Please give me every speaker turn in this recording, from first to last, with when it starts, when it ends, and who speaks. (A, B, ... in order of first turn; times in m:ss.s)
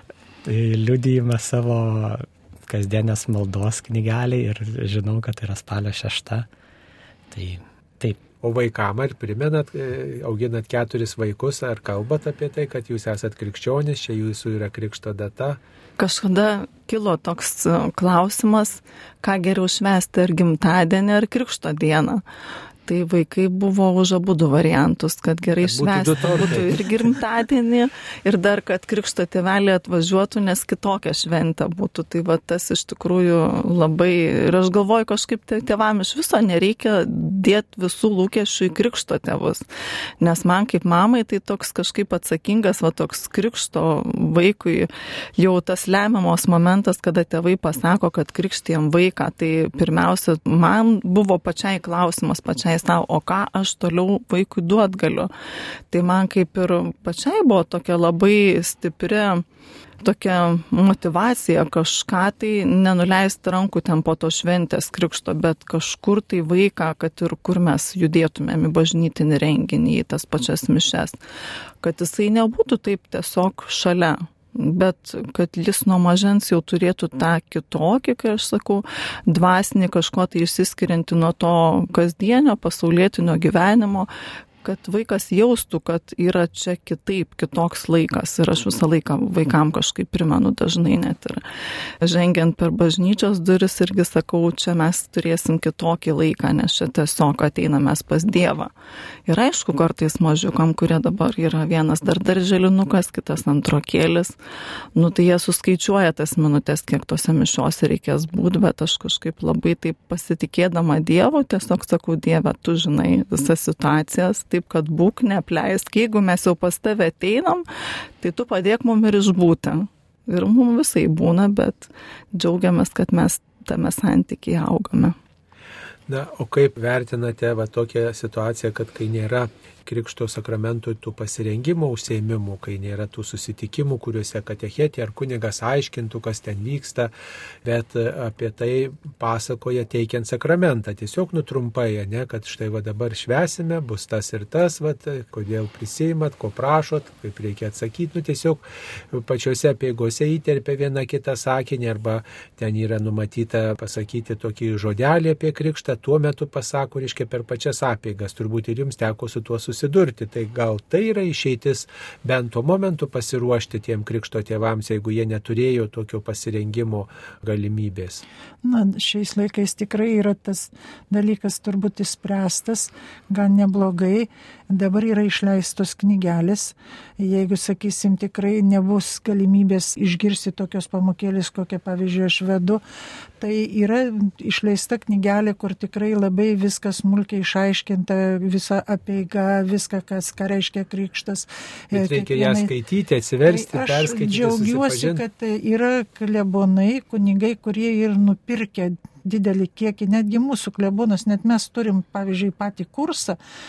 0:00.4-0:06.5 A
0:07.3-0:08.2 A
0:08.4-0:15.6 B
0:16.0-0:22.2 C
0:22.8-0:39.6 C
0:25.6-0:27.0 B
0:40.2-0:55.3 C
0:55.9-0:59.4 C
1:00.0-1:11.2 C
1:11.8-1:24.1 C
1:24.6-1:31.4 C
1:32.0-1:38.7 C
1:39.3-1:44.4 C
1:44.9-1:57.6 C
1:58.2-2:05.2 C
2:06.1-2:17.1 B
2:17.6-2:48.2 B
2:48.6-3:02.8 D
3:03.4-3:12.7 D
3:11.9-3:15.2 B
3:13.4-3:23.4 D